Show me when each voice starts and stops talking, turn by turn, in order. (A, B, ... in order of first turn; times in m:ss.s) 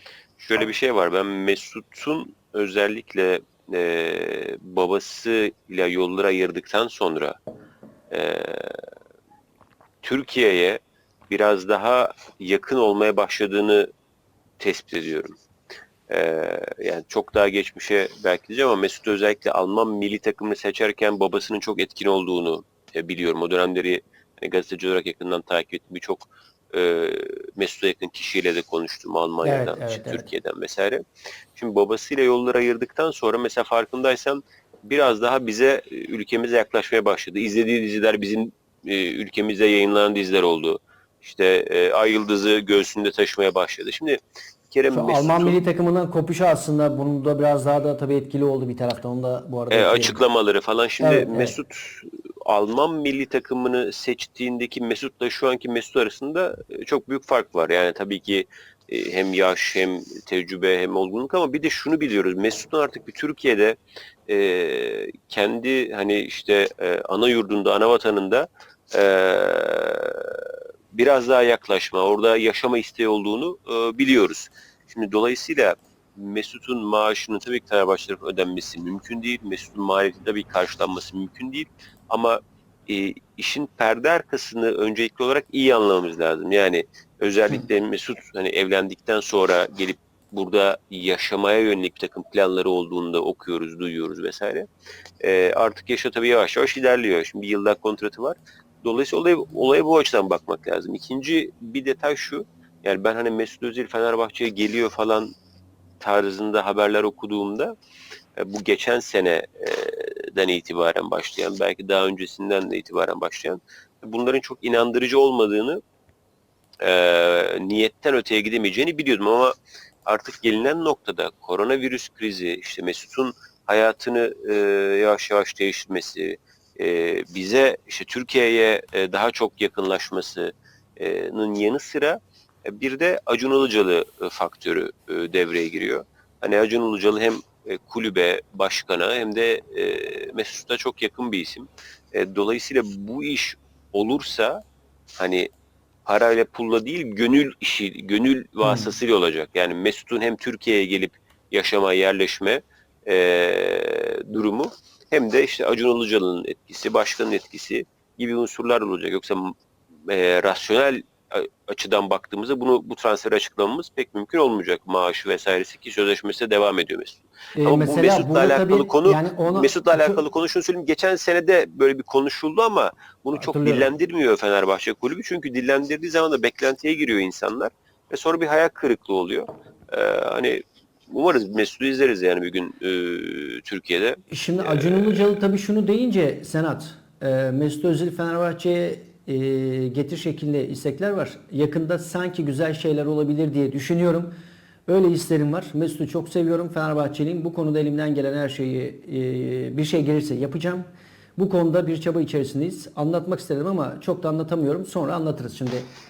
0:00.4-0:07.4 A
0:08.1-0:08.8 A
0:10.0-0:13.9 A
0:14.6-0:15.3 A
0:16.1-0:31.0 A
0:29.4-0:30.3 B
0:31.6-0:45.6 A
0:44.9-0:50.2 B
0:49.7-1:03.8 A
0:51.0-0:51.6 B
1:04.3-1:34.7 A
1:35.2-1:45.3 A
1:46.0-1:47.7 A
1:48.4-1:55.8 A
1:56.8-1:59.6 A
2:00.1-2:24.6 A
2:25.2-2:25.5 A
2:26.1-2:39.6 A
2:28.6-2:28.9 B
2:40.1-3:05.4 A
2:47.6-2:50.2 B
2:53.3-2:53.9 B
3:04.3-3:14.3 B
3:14.9-3:20.8 B
3:21.4-3:25.9 B